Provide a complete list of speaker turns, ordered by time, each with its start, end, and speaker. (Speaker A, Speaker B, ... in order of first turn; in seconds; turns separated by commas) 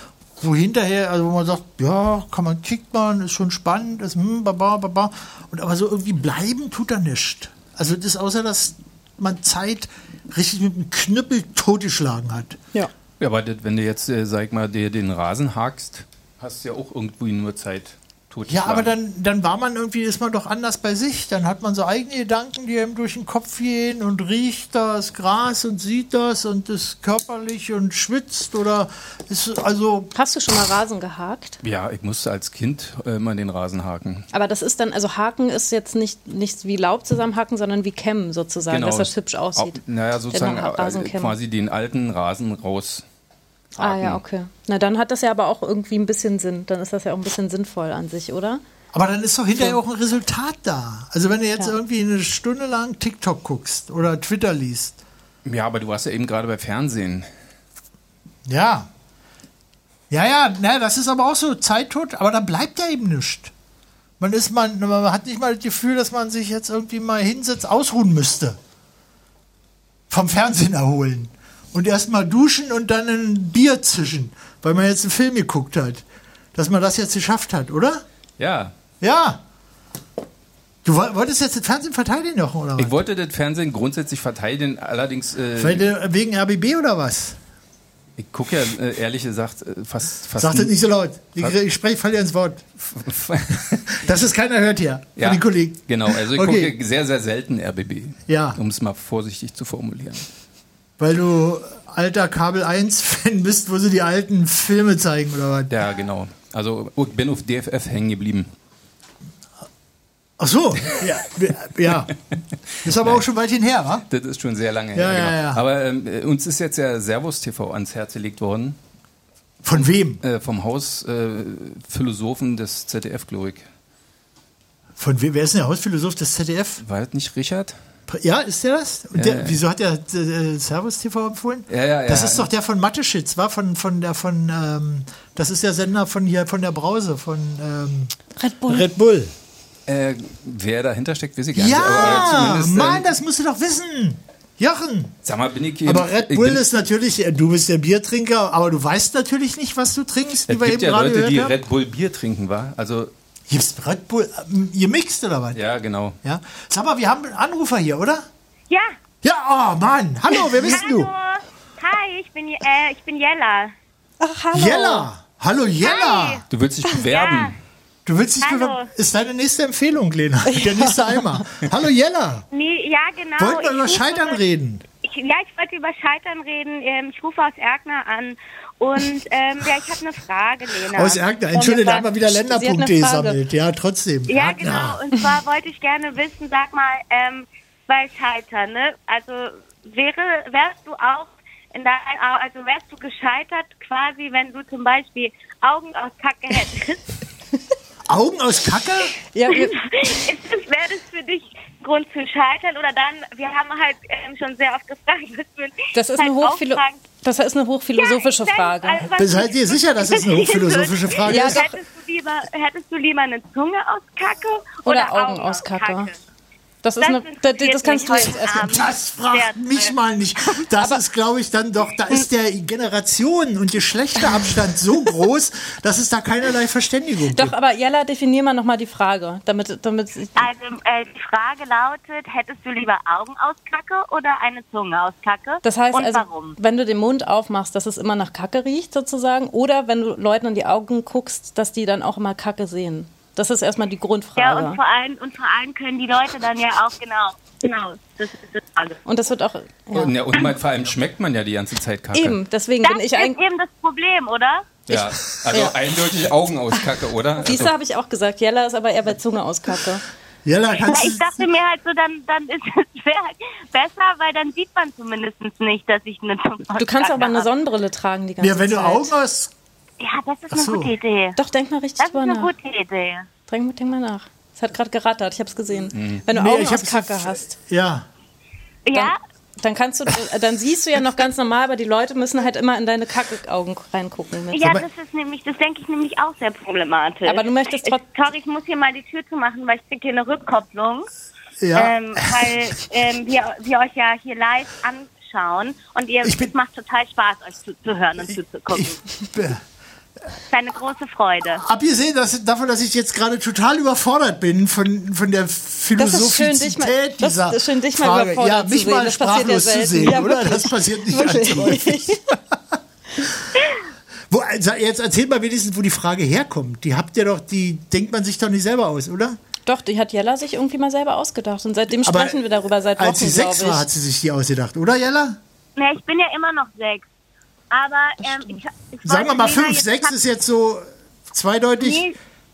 Speaker A: 0.4-12.6, Speaker B: 13.2-18.9, Speaker A: 18.5-30.1, Speaker C: 30.1-31.6, Speaker B: 31.6-34.2, Speaker C: 34.3-39.8, Speaker B: 38.7-43.0, Speaker C: 40.3-41.3, Speaker B: 43.8-44.2, Speaker C: 43.8-48.6, Speaker A: 48.9-55.0, Speaker B: 55.4-57.3, Speaker A: 58.5-58.9, Speaker A: 60.1-63.5, Speaker A: 64.2-68.6, Speaker A: 70.1-78.0, Speaker B: 78.4-78.7, Speaker A: 79.0-79.4, Speaker A: 80.8-83.0, Speaker B: 82.8-85.9, Speaker A: 85.6-87.4, Speaker B: 88.2-90.7, Speaker A: 90.4-92.7, Speaker B: 92.9-93.8, Speaker A: 93.9-96.7, Speaker B: 95.2-100.3, Speaker A: 98.3-98.6, Speaker A: 101.0-105.7, Speaker B: 105.7-108.5, Speaker A: 110.4-112.1, Speaker A: 112.8-114.0, Speaker B: 112.8-113.2, Speaker B: 114.1-118.8, Speaker A: 114.9-115.6, Speaker A: 119.6-120.2, Speaker B: 120.2-123.7, Speaker A: 125.0-126.8, Speaker B: 126.8-127.8, Speaker A: 128.1-138.1, Speaker B: 129.2-129.6, Speaker B: 131.7-132.5, Speaker C: 138.4-138.9, Speaker A: 138.7-139.3, Speaker B: 139.9-143.1, Speaker A: 141.5-145.1, Speaker B: 145.2-146.6, Speaker A: 145.8-151.6, Speaker B: 150.5-153.1, Speaker A: 153.5-155.6, Speaker B: 155.5-156.1, Speaker A: 156.2-158.3, Speaker D: 158.7-159.0, Speaker A: 159.2-161.1, Speaker D: 160.7-163.7, Speaker C: 164.2-165.1, Speaker A: 164.5-166.4, Speaker D: 165.8-166.4, Speaker B: 166.5-167.6, Speaker D: 167.0-167.6, Speaker A: 168.1-172.4, Speaker D: 168.4-168.9, Speaker C: 170.5-171.4, Speaker D: 172.5-174.4, Speaker A: 173.4-174.8, Speaker D: 175.0-182.0, Speaker A: 180.9-185.1, Speaker C: 182.3-183.4, Speaker D: 184.3-197.0, Speaker A: 198.1-199.1, Speaker C: 199.3-200.1, Speaker D: 199.5-207.0, Speaker C: 205.9-209.1, Speaker D: 207.9-216.2, Speaker A: 209.2-211.6, Speaker C: 211.2-211.8, Speaker C: 214.8-216.1, Speaker C: 216.8-218.8, Speaker D: 217.0-219.9, Speaker A: 218.6-227.5, Speaker C: 227.3-230.4, Speaker D: 230.3-236.6, Speaker C: 235.6-244.8, Speaker D: 244.4-249.0, Speaker C: 249.1-250.1, Speaker B: 249.9-252.4, Speaker C: 252.1-253.4, Speaker D: 252.8-254.8, Speaker B: 254.9-257.7, Speaker C: 257.4-260.0, Speaker A: 260.4-261.4, Speaker D: 260.9-267.5, Speaker C: 266.8-269.1, Speaker A: 268.4-269.5, Speaker D: 270.0-271.4, Speaker A: 270.5-270.9, Speaker C: 271.4-272.5, Speaker D: 272.0-273.3, Speaker C: 273.5-277.5, Speaker B: 275.9-276.2, Speaker A: 276.3-278.1, Speaker D: 278.9-279.2, Speaker C: 278.9-284.7, Speaker D: 284.5-291.1, Speaker C: 287.2-288.0, Speaker A: 291.6-292.7, Speaker D: 291.7-299.0, Speaker A: 296.2-296.5, Speaker A: 298.7-299.6, Speaker D: 300.5-301.6, Speaker A: 301.6-312.5, Speaker C: 306.0-312.2, Speaker A: 314.3-319.4, Speaker C: 319.6-323.9, Speaker A: 322.0-322.4, Speaker A: 323.0-325.4, Speaker D: 325.8-327.1, Speaker D: 327.7-330.1, Speaker A: 329.0-332.1, Speaker D: 331.8-332.1